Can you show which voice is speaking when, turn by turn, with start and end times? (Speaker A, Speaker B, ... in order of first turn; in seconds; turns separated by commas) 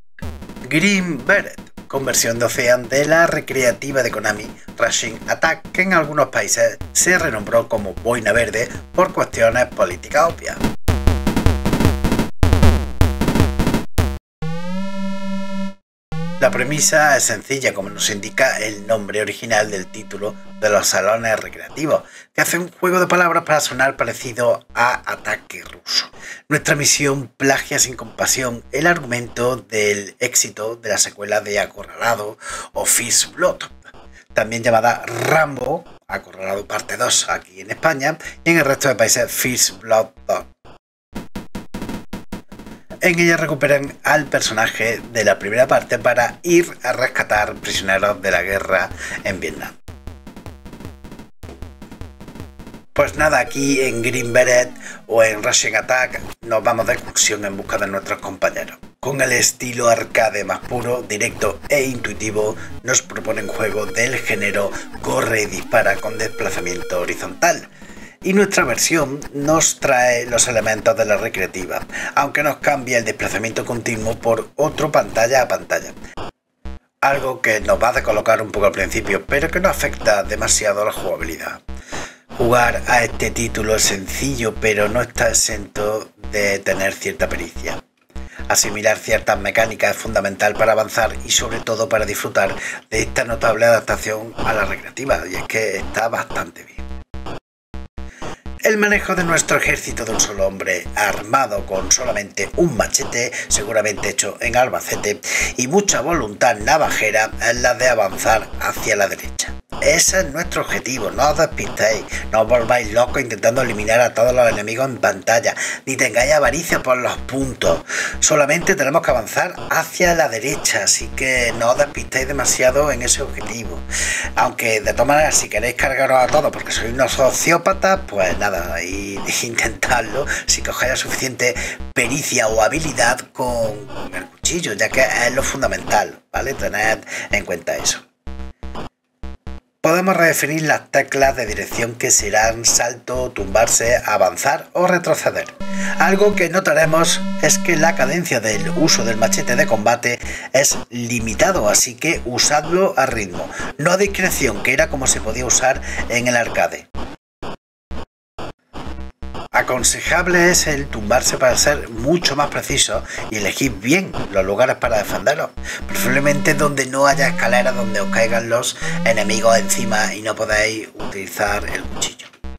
Speaker A: 0.7-10.6, Speaker A: 16.4-33.8, Speaker A: 34.3-40.5, Speaker A: 43.0-49.8, Speaker A: 52.9-67.7, Speaker A: 68.2-76.0, Speaker A: 77.0-81.6, Speaker A: 82.3-87.8, Speaker A: 88.5-96.8, Speaker A: 98.7-123.8, Speaker A: 124.4-138.1, Speaker A: 139.8-156.9, Speaker A: 159.5-172.3